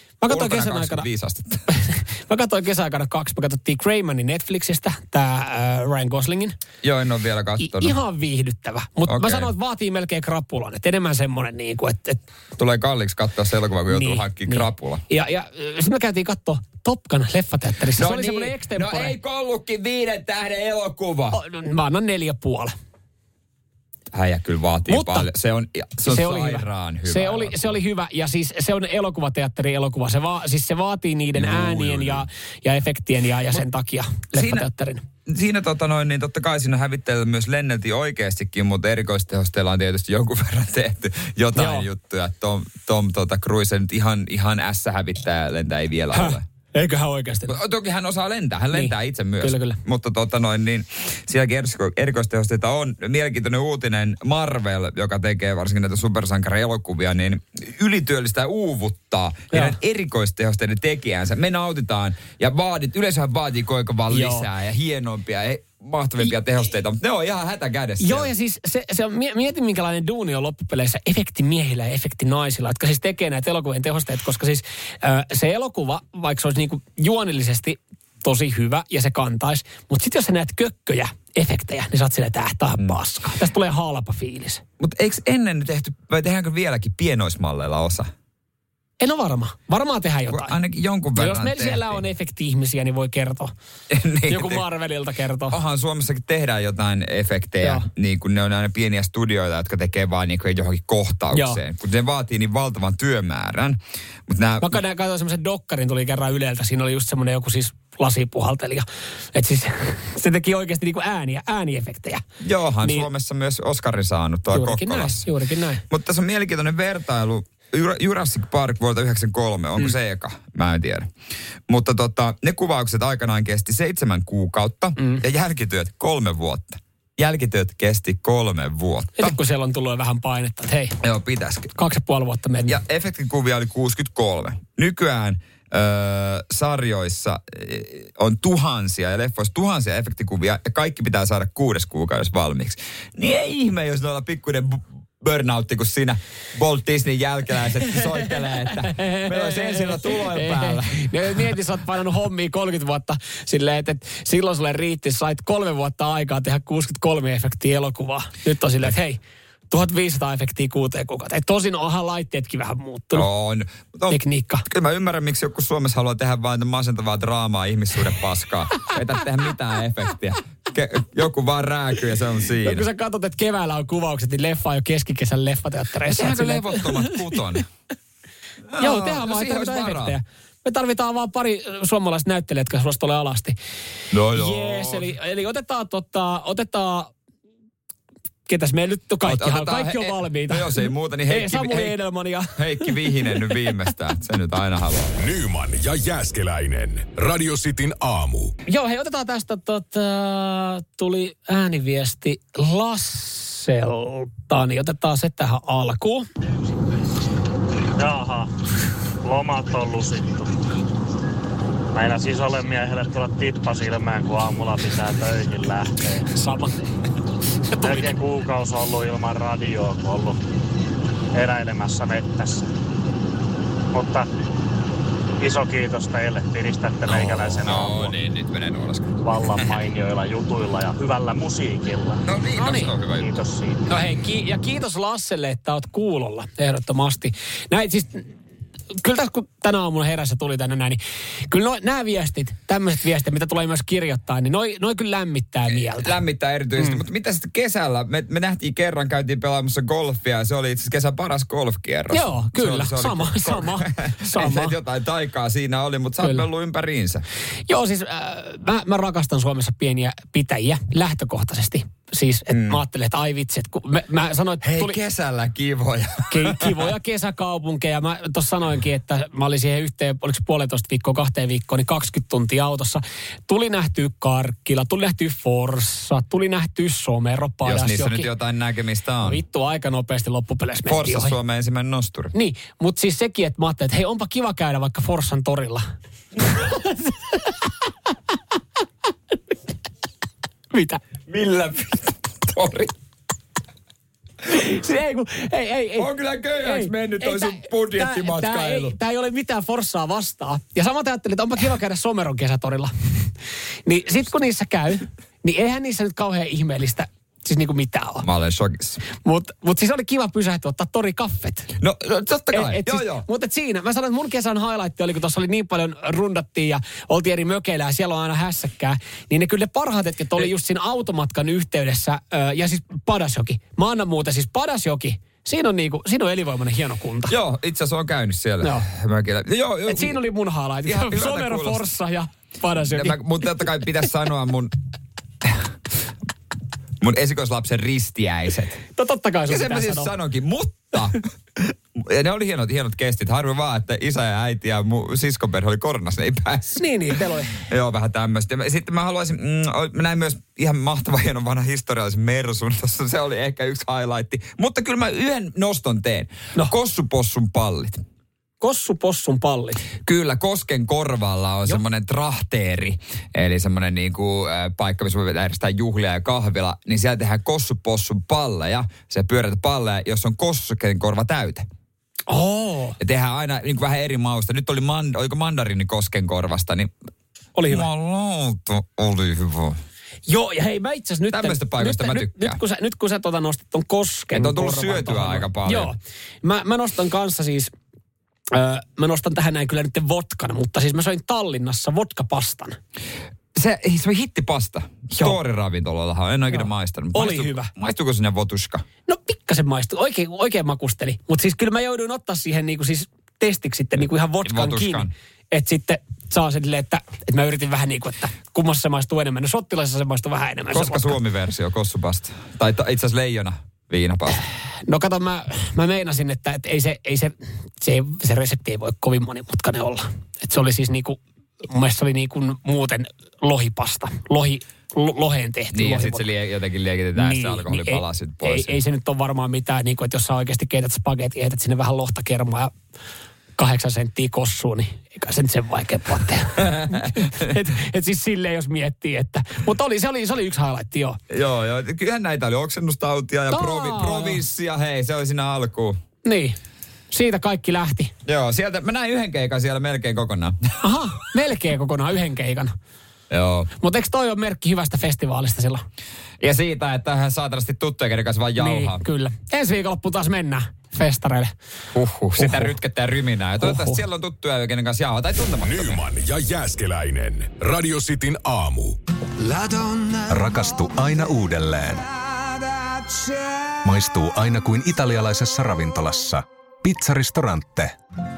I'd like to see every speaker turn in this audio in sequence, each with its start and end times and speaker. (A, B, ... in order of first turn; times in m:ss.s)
0:00.2-0:01.1 A
0:00.3-0:01.7 B
0:01.7-0:06.6 A
0:06.8-0:08.0 B
0:07.6-0:12.2 A
0:09.1-0:09.5 B
0:12.6-0:15.0 B
0:13.9-0:19.2 A
0:17.9-0:21.4 B
0:21.3-0:22.7 A
0:24.1-0:27.8 B
0:24.9-0:25.3 A
0:26.0-0:35.0 A
0:31.3-0:32.2 B
0:34.3-0:34.7 B
0:35.3-0:46.4 B
0:41.5-0:41.9 A
0:46.1-0:47.6 A
0:47.5-1:08.3 B
0:48.7-0:49.8 A
0:59.5-0:59.8 A
1:04.1-1:04.4 A
1:08.0-1:24.6 A
1:24.8-1:28.1 B
1:29.0-1:30.6 A
1:30.3-1:32.0 B
1:31.1-1:33.5 A
1:33.9-1:34.6 B
1:34.3-1:35.6 A
1:35.5-1:44.8 B
1:37.6-1:37.8 A
1:41.3-1:41.6 A
1:44.6-1:52.2 A
1:52.4-1:55.3 B
1:54.5-1:55.8 A
1:55.9-2:01.1 B
2:01.7-2:09.4 B
2:05.0-2:05.2 A
2:09.2-2:11.0 A
2:11.0-2:11.7 B
2:11.8-2:12.8 A
2:12.7-2:31.6 B
2:28.7-2:43.3 A
2:43.1-2:52.9 B
2:44.1-2:44.6 A
2:52.6-2:57.3 A
2:56.0-2:57.6 B
2:58.7-3:00.2 B
2:58.8-3:03.6 A
3:04.1-3:05.1 B
3:04.3-3:07.1 A
3:08.5-3:12.9 A
3:09.2-3:12.0 B
3:12.5-3:15.1 B
3:15.2-3:18.5 C
3:18.7-3:26.3 A
3:28.0-3:28.5 D
3:29.2-3:30.5 D
3:31.9-3:36.3 D
3:36.3-3:36.8 A
3:37.7-3:38.2 A
3:37.8-3:40.4 D
3:41.3-3:42.7 D
3:43.9-3:44.3 D
3:45.4-3:48.2 D
3:47.1-3:49.7 B
3:49.2-3:52.2 D
3:52.2-3:53.3 B
3:52.6-3:52.9 A
3:53.1-3:53.8 D
3:53.8-3:58.3 A
3:59.0-4:06.1 A
4:05.7-4:17.2 B
4:06.8-4:07.0 A
4:12.1-4:14.8 A
4:16.2-4:16.5 A
4:17.7-4:25.0 A
4:22.5-4:22.8 B
4:24.6-4:26.9 B
4:26.3-4:38.3 A
4:37.6-4:39.4 B
4:39.2-4:41.3 A
4:40.8-4:42.3 B
4:42.3-4:45.8 A
4:46.5-4:47.6 A
4:50.7-4:51.0 A
4:51.3-4:52.9 B
4:54.5-5:03.3 A
4:56.0-4:59.0 B
5:03.8-5:08.2 A
5:08.2-5:09.0 B
5:09.1-5:11.7 A
5:11.8-5:13.2 B
5:12.5-5:27.3 A
5:27.3-5:30.2 B
5:29.9-5:33.2 A
5:30.8-5:31.8 B
5:32.8-5:34.7 B
5:37.0-5:38.8 B
5:39.0-5:40.1 A
5:39.5-5:58.0 B
5:46.8-5:47.6 A
5:58.6-5:59.8 A
6:00.0-6:11.7 B
6:12.3-6:13.0 A
6:13.0-6:16.9 B
6:17.6-6:17.9 A
6:17.7-6:19.8 B
6:20.3-6:27.7 A
6:21.3-6:22.6 B
6:24.3-6:25.9 B
6:28.5-6:32.8 A
6:33.5-6:38.8 B
6:36.5-6:37.7 A
6:39.1-6:51.2 A
6:44.4-6:45.1 B
6:50.7-6:54.4 B
6:54.9-7:06.2 A
7:05.7-7:08.8 B
7:07.2-7:12.7 A
7:13.6-7:21.2 A
7:16.6-7:17.4 B
7:21.3-7:26.0 B
7:23.5-7:24.4 A
7:26.2-7:26.6 A
7:27.1-7:28.1 A
7:28.2-7:30.6 B
7:30.8-7:32.7 A
7:33.3-7:33.7 B
7:33.8-7:35.8 A
7:36.4-7:39.0 B
7:38.6-7:41.5 A
7:41.9-7:46.0 B
7:42.4-7:42.7 A
7:43.6-7:44.0 A
7:45.6-7:49.0 C
7:49.4-7:52.0 E
7:53.8-7:57.9 E